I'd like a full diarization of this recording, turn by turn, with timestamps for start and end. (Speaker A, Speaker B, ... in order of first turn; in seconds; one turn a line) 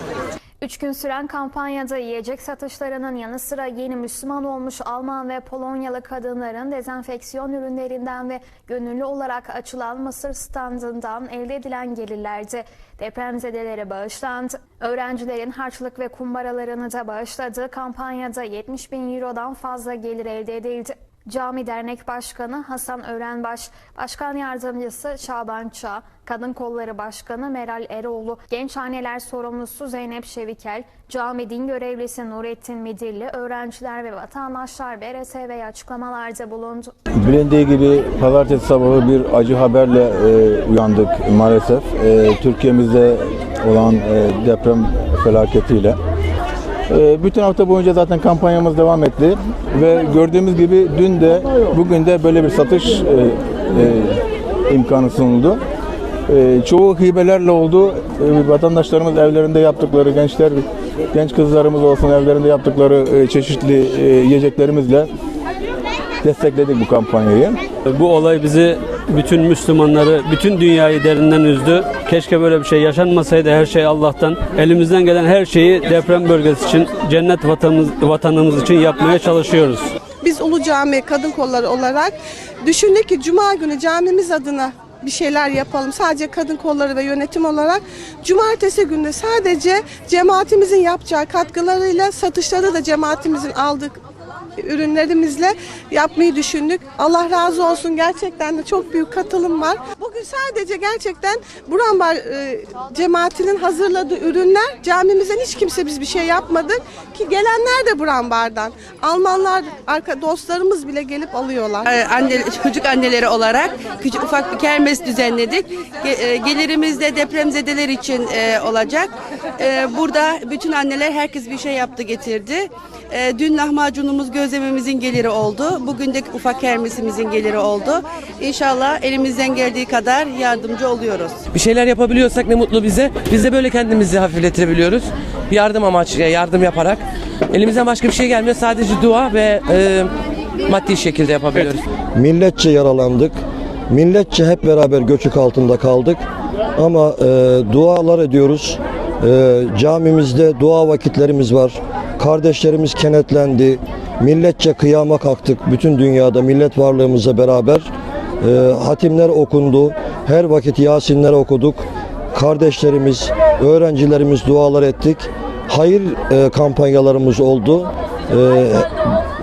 Speaker A: 0.6-36.9
Speaker B: 37.2-46.0
Speaker B: 46.9-55.6
Speaker B: 56.3-65.1
Speaker B: 66.2-67.6
Speaker C: 67.8-79.9
Speaker D: 80.2-94.0
Speaker D: 94.6-111.9
Speaker E: 111.9-131.4
Speaker F: 131.5-140.1
Speaker F: 140.7-141.8
Speaker G: 142.2-143.4
Speaker G: 143.9-146.2
Speaker G: 146.8-157.9
Speaker G: 158.4-169.0